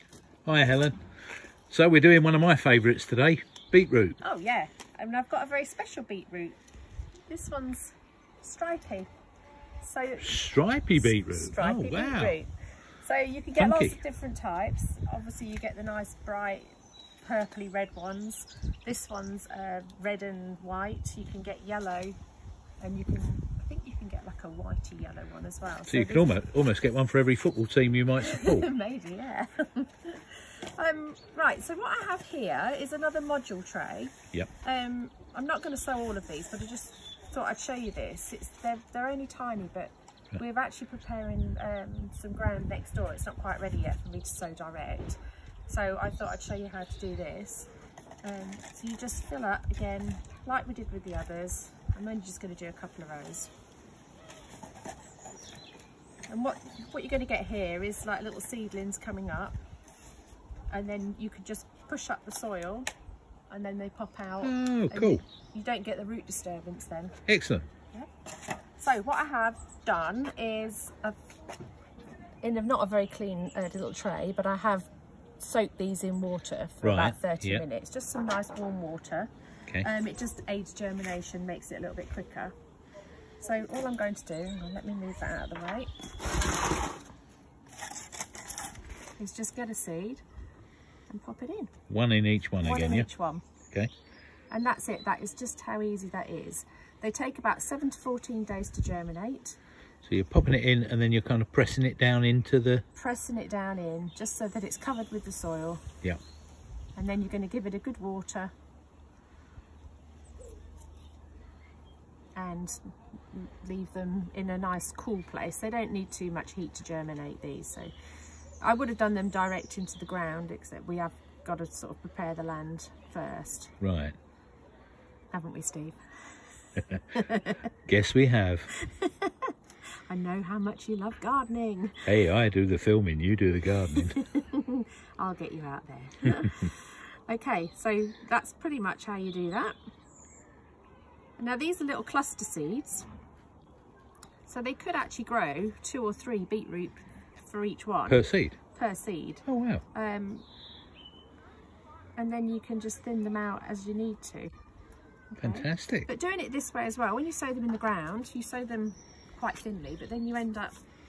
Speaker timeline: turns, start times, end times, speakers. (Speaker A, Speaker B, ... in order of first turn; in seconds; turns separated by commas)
Speaker A: 0.5-1.0, Speaker A: 1.7-4.2, Speaker B: 4.2-6.6, Speaker B: 7.3-9.1, Speaker B: 9.8-22.2, Speaker A: 10.2-12.4, Speaker A: 13.6-14.0, Speaker B: 22.8-26.4, Speaker A: 25.9-28.7, Speaker B: 28.2-47.7, Speaker B: 48.2-53.5, Speaker B: 56.3-59.6, Speaker B: 60.7-62.9, Speaker B: 63.5-67.2, Speaker A: 64.4-65.2, Speaker A: 67.3-67.7, Speaker B: 68.8-71.2, Speaker B: 72.4-74.9, Speaker B: 75.4-82.5, Speaker A: 76.8-77.6, Speaker B: 83.4-85.9, Speaker B: 89.2-90.2, Speaker B: 91.1-91.7, Speaker A: 91.9-93.1, Speaker B: 92.6-93.4, Speaker B: 94.5-99.6, Speaker A: 100.0-102.8, Speaker B: 103.0-105.9, Speaker B: 107.0-108.5, Speaker B: 112.4-117.9, Speaker B: 118.6-123.7, Speaker A: 123.8-124.2, Speaker B: 125.3-126.0, Speaker B: 126.9-127.7, Speaker A: 127.9-128.7, Speaker B: 128.7-129.5, Speaker B: 130.1-132.1, Speaker A: 132.1-134.2, Speaker B: 133.9-139.8, Speaker B: 141.4-143.1, Speaker B: 144.5-150.4, Speaker A: 148.1-148.6, Speaker A: 149.5-149.8, Speaker B: 152.2-154.5, Speaker B: 155.3-160.8, Speaker A: 155.4-156.1